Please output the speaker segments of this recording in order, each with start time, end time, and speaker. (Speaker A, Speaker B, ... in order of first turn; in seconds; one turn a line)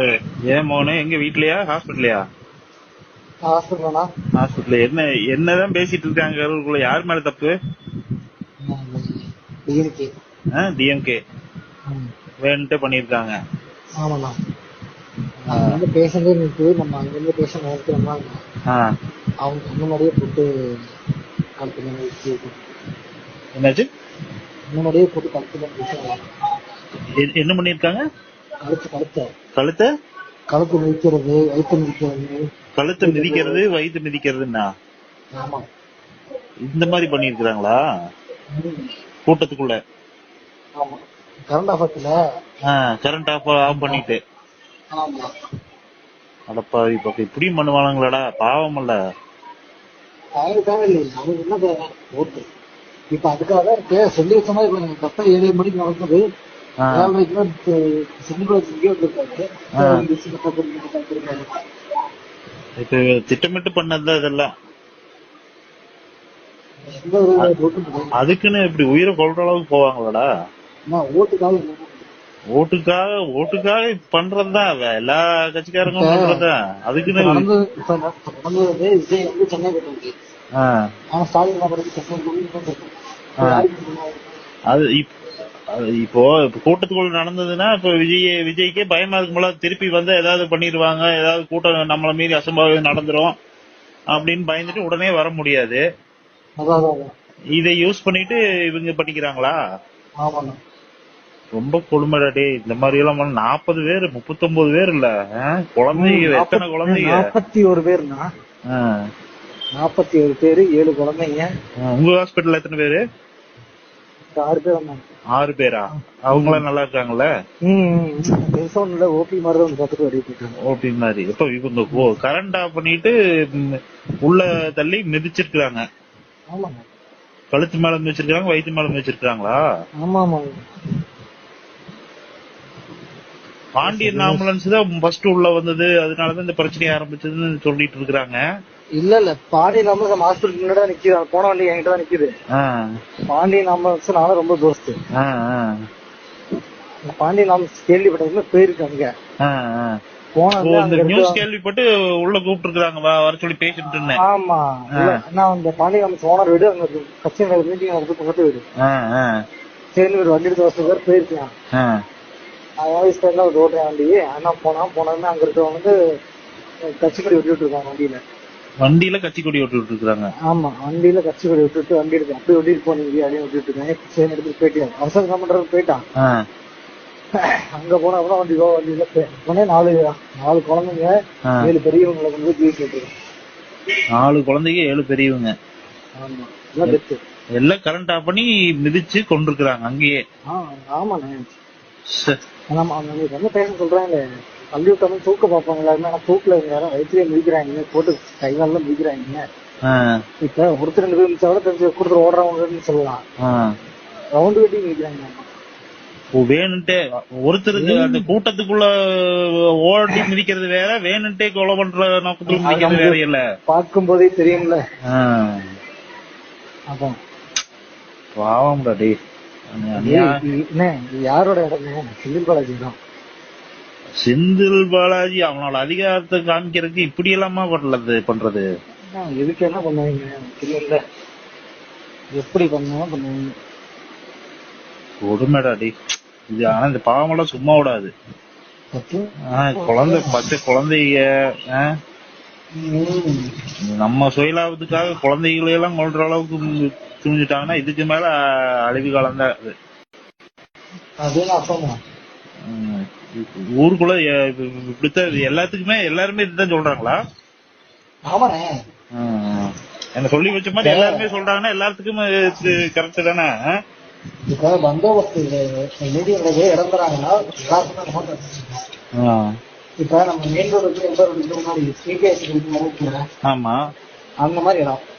Speaker A: 0.5-2.2
Speaker B: 3.4-4.1
Speaker A: 4.4-7.5
Speaker B: 8.6-9.1
Speaker B: 9.7-10.1
Speaker A: 10.5-11.2
Speaker A: 12.4-13.3
Speaker B: 14.0-14.3
Speaker B: 15.4-18.4
Speaker A: 15.5-15.8
Speaker B: 19.4-20.5
Speaker B: 21.6-22.6
Speaker A: 23.5-23.9
Speaker B: 24.7-26.2
Speaker A: 27.2-28.0
Speaker B: 28.6-29.3
Speaker A: 29.6-29.9
Speaker B: 30.5-32.4
Speaker A: 32.8-34.7
Speaker B: 33.0-33.6
Speaker B: 35.4-35.6
Speaker A: 36.7-37.8
Speaker B: 38.5-38.8
Speaker A: 39.2-39.8
Speaker B: 40.8-42.1
Speaker A: 42.7-44.2
Speaker B: 43.7-44.0
Speaker B: 44.9-45.3
Speaker A: 46.5-49.0
Speaker B: 50.4-52.4
Speaker B: 53.1-56.2
Speaker A: 56.8-57.1
Speaker B: 56.9-61.5
Speaker A: 62.8-64.5
Speaker B: 66.9-68.1
Speaker A: 68.2-70.2
Speaker B: 70.9-72.1
Speaker A: 72.5-77.4
Speaker B: 75.9-76.4
Speaker B: 77.1-80.1
Speaker B: 81.1-84.3
Speaker A: 84.7-85.1
Speaker A: 85.7-93.3
Speaker A: 94.1-95.8
Speaker B: 96.6-97.1
Speaker A: 97.6-99.5
Speaker B: 100.2-100.6
Speaker A: 101.5-105.1
Speaker A: 105.7-107.2
Speaker B: 105.9-108.2
Speaker B: 109.8-111.5
Speaker A: 111.8-113.0
Speaker B: 114.3-115.0
Speaker A: 115.3-117.3
Speaker B: 115.9-116.6
Speaker B: 117.6-120.5
Speaker A: 120.7-123.7
Speaker A: 124.2-125.8
Speaker B: 126.5-126.8
Speaker A: 127.5-129.6
Speaker B: 130.0-130.5
Speaker A: 133.8-138.4
Speaker B: 133.8-134.4
Speaker B: 139.0-142.3
Speaker B: 143.3-144.9
Speaker A: 145.2-145.7
Speaker B: 147.1-149.1
Speaker A: 149.4-150.0
Speaker B: 150.3-151.4
Speaker A: 150.6-154.2
Speaker B: 154.1-158.6
Speaker A: 158.8-159.3
Speaker B: 159.9-161.5
Speaker B: 162.8-165.9
Speaker B: 167.0-168.2
Speaker A: 168.8-170.3
Speaker B: 170.5-176.0
Speaker B: 177.4-183.1
Speaker A: 184.2-185.5
Speaker B: 186.2-187.2
Speaker A: 187.6-190.2
Speaker B: 190.5-191.5
Speaker B: 192.7-194.2
Speaker B: 194.7-199.4
Speaker A: 199.8-200.2
Speaker B: 200.4-203.2
Speaker A: 203.4-203.7
Speaker B: 204.4-205.5
Speaker A: 206.3-213.4
Speaker B: 207.7-208.3
Speaker B: 212.5-214.8
Speaker A: 215.1-215.6
Speaker A: 218.4-219.1
Speaker A: 219.8-220.3
Speaker B: 220.0-223.0
Speaker A: 224.2-228.6
Speaker B: 229.1-231.0
Speaker B: 232.3-233.5
Speaker A: 235.2-235.9
Speaker A: 236.5-238.1
Speaker B: 238.9-240.4
Speaker A: 239.5-241.8
Speaker B: 242.8-243.5
Speaker A: 243.9-248.3
Speaker A: 248.9-249.7
Speaker B: 251.2-252.0
Speaker A: 252.7-257.1
Speaker B: 258.3-258.7
Speaker A: 259.1-263.5
Speaker B: 260.8-261.2
Speaker B: 264.5-268.8
Speaker A: 269.2-269.5
Speaker B: 270.0-273.2
Speaker A: 273.4-273.8
Speaker B: 274.4-275.0